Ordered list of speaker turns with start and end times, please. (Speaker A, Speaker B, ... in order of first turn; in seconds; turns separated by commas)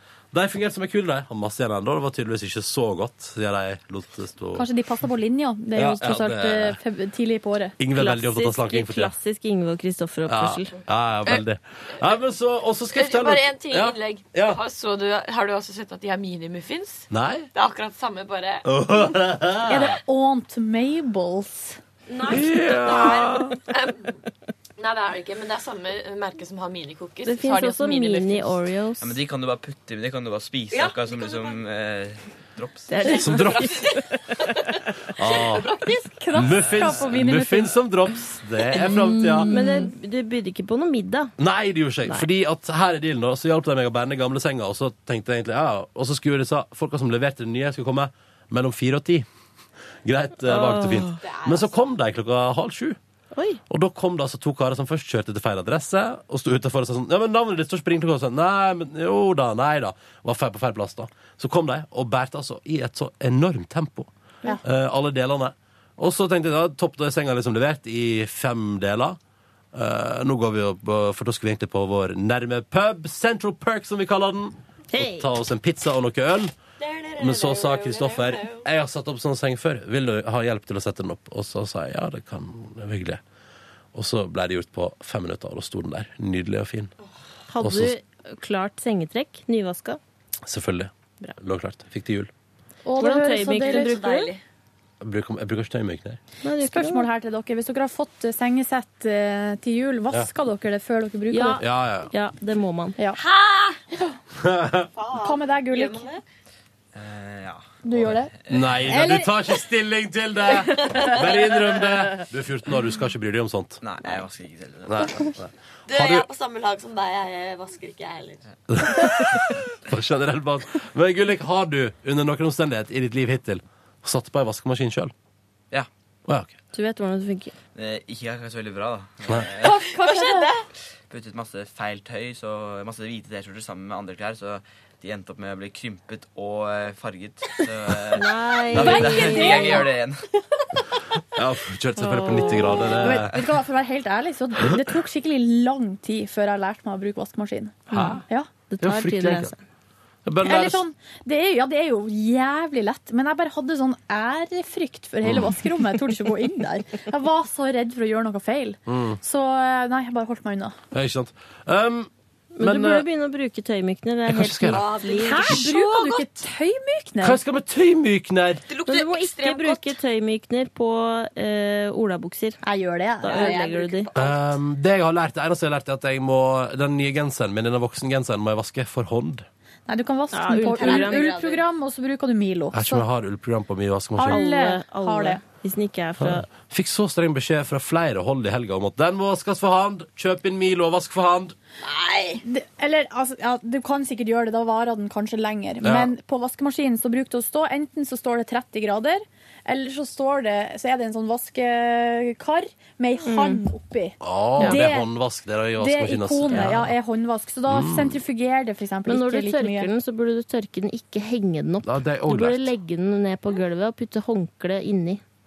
Speaker A: 0.3-4.7, Speaker B: 4.6-7.8, Speaker A: 5.8-6.8, Speaker A: 7.8-9.1, Speaker C: 7.9-10.8, Speaker A: 10.3-14.6, Speaker D: 12.9-18.6, Speaker A: 17.1-17.5, Speaker A: 18.6-19.9, Speaker B: 19.7-21.8, Speaker D: 22.1-24.1, Speaker A: 22.3-23.5, Speaker D: 24.8-28.5, Speaker C: 27.2-29.2, Speaker E: 29.0-33.0, Speaker D: 30.7-31.6, Speaker C: 32.9-34.5, Speaker A: 33.2-33.6, Speaker A: 35.2-35.7, Speaker D: 35.2-36.1, Speaker B: 36.1-37.8, Speaker A: 36.3-39.5, Speaker B: 38.8-39.9, Speaker C: 39.4-41.3, Speaker A: 41.4-49.3, Speaker A: 50.0-53.0, Speaker C: 50.5-51.2, Speaker D: 51.2-51.9, Speaker C: 53.3-53.6, Speaker A: 53.7-64.1, Speaker A: 64.6-69.2, Speaker A: 69.7-76.5, Speaker C: 74.9-75.3, Speaker D: 76.8-78.7, Speaker A: 77.2-83.2, Speaker A: 83.9-86.9, Speaker C: 87.5-90.0, Speaker A: 87.6-88.0, Speaker A: 90.5-92.3, Speaker B: 92.8-94.2, Speaker C: 93.0-94.3, Speaker D: 93.6-94.4, Speaker A: 95.0-96.2, Speaker C: 96.4-97.1, Speaker B: 96.6-101.6, Speaker C: 101.3-103.0, Speaker A: 101.6-102.1, Speaker D: 103.2-103.8, Speaker A: 104.4-104.9, Speaker D: 104.9-106.2, Speaker B: 105.2-106.1, Speaker E: 106.9-109.0, Speaker B: 107.8-109.3, Speaker A: 108.5-113.8, Speaker E: 113.8-115.0, Speaker A: 114.9-116.3, Speaker D: 115.9-118.4, Speaker A: 118.7-125.1, Speaker A: 126.3-126.5, Speaker C: 126.7-127.5, Speaker E: 127.8-129.8, Speaker B: 129.6-130.5, Speaker D: 129.7-130.6, Speaker E: 131.1-140.3, Speaker C: 138.1-139.9, Speaker B: 138.8-139.9, Speaker D: 139.4-139.7, Speaker A: 141.3-143.4, Speaker C: 142.0-143.2, Speaker B: 142.7-148.5, Speaker C: 147.9-149.6, Speaker A: 147.9-148.2, Speaker A: 148.8-149.5, Speaker A: 150.2-150.8, Speaker B: 150.4-160.8, Speaker A: 155.2-155.6, Speaker A: 158.9-159.2, Speaker A: 160.9-163.1, Speaker C: 162.5-165.6, Speaker A: 164.3-164.9, Speaker D: 164.7-166.3, Speaker B: 165.2-167.4, Speaker A: 167.2-168.6, Speaker D: 168.7-170.0, Speaker C: 168.9-172.6, Speaker B: 172.6-173.7, Speaker C: 173.2-174.1, Speaker D: 173.3-174.6, Speaker A: 174.2-179.5, Speaker B: 179.9-183.1, Speaker C: 180.3-181.4, Speaker D: 180.5-181.6, Speaker A: 182.7-184.4, Speaker B: 184.2-185.4, Speaker C: 184.2-186.5, Speaker A: 186.2-191.6, Speaker D: 191.8-192.4, Speaker B: 192.4-205.1, Speaker A: 195.8-196.1, Speaker C: 203.2-203.6, Speaker A: 204.2-206.9, Speaker C: 204.6-204.9, Speaker B: 205.8-209.9, Speaker A: 207.7-208.2, Speaker C: 209.1-215.2, Speaker A: 211.8-212.7